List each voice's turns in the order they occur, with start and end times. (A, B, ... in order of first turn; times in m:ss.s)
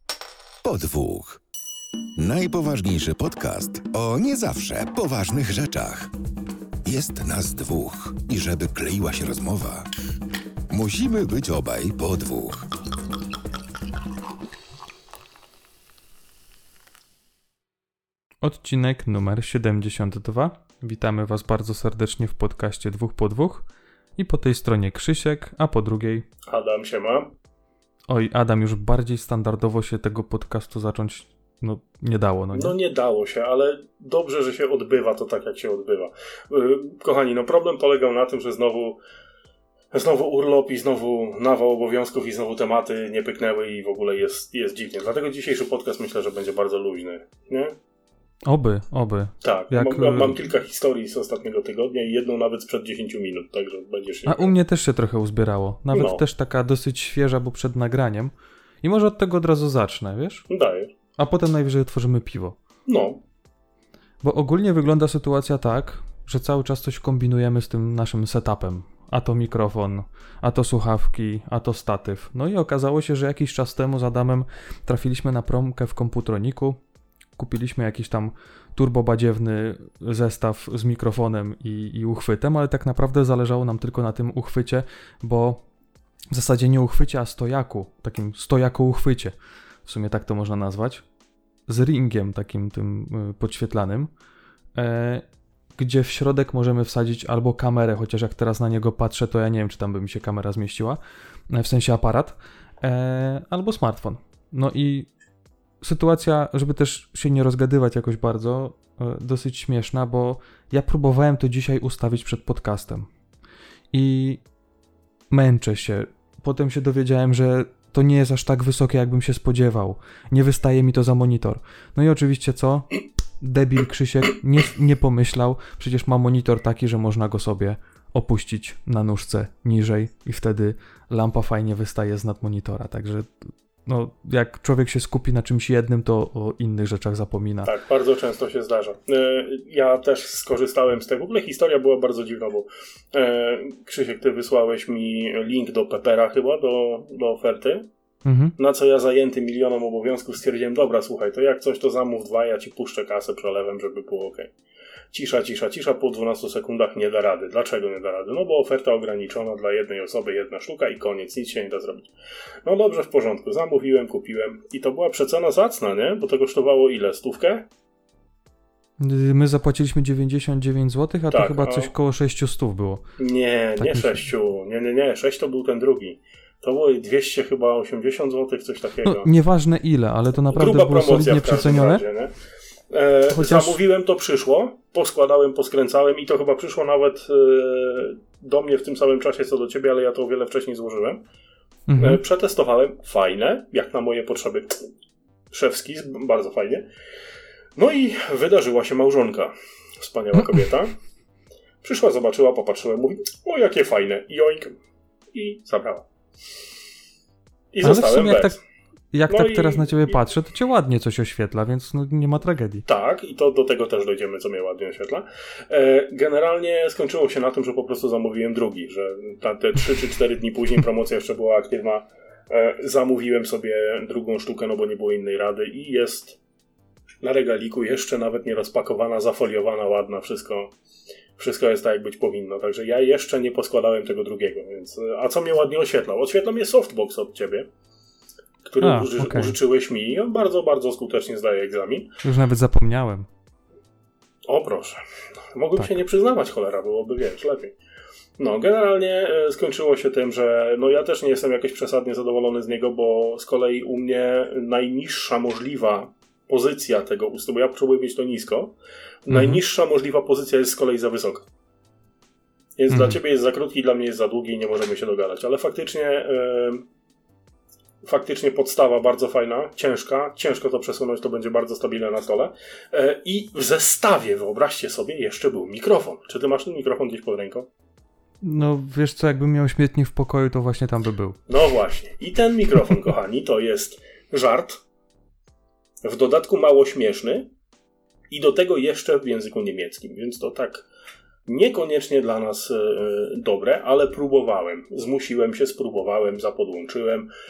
0:00.6-0:01.4 A
0:02.2-0:06.1 A
0:06.8-0:09.9 A
0:10.7-0:12.7 A
0:18.4-0:26.2 B
0:26.5-0:27.3 C
0:28.1-0:32.7 B
0:32.5-0:39.0 C
0:39.9-0:47.8 C
0:48.4-0:50.4 B
0:49.4-0:54.6 C
0:54.2-1:00.5 B
0:55.9-0:56.2 C
1:00.5-1:00.9 C
1:01.2-1:02.6 B
1:02.9-1:03.2 C
1:04.2-1:16.8 B
1:17.4-1:25.6 B
1:26.3-1:31.0 B
1:31.7-1:34.1 B
1:34.7-1:45.1 B
1:45.8-1:53.1 B
1:53.9-1:54.4 B
1:55.3-2:02.9 B
2:03.4-2:17.7 B
2:17.6-2:27.9 C
2:28.2-2:28.5 B
2:28.6-2:34.5 C
2:35.1-2:42.1 C
2:42.6-2:47.7 C
2:49.0-2:53.1 B
2:51.3-2:51.9 C
2:53.2-2:59.3 C
2:53.8-2:54.3 B
2:59.0-3:02.0 B
3:00.5-3:02.3 C
3:02.9-3:11.2 C
3:03.3-3:03.8 B
3:11.9-3:12.2 B
3:12.0-3:14.8 C
3:15.5-3:16.8 C
3:17.8-3:20.9 C
3:20.4-3:20.6 B
3:21.8-3:24.7 C
3:25.3-3:26.1 C
3:27.7-3:28.6 C
3:27.8-3:28.5 B
3:29.1-3:32.8 B
3:29.3-3:30.2 C
3:32.9-3:46.4 C
3:47.2-3:50.7 C
3:51.4-3:57.7 C
3:58.7-4:02.1 C
3:58.8-3:59.6 B
4:02.2-4:03.3 B
4:04.5-4:05.0 C
4:05.5-4:07.7 C
4:08.4-4:18.7 C
4:19.2-4:21.4 C
4:19.3-4:19.6 B
4:22.8-4:26.8 C
4:22.9-4:23.2 B
4:28.0-4:37.7 C
4:38.4-4:41.4 B
4:41.5-4:44.8 C
4:46.0-4:47.5 C
4:48.3-4:50.8 C
4:51.4-4:57.3 C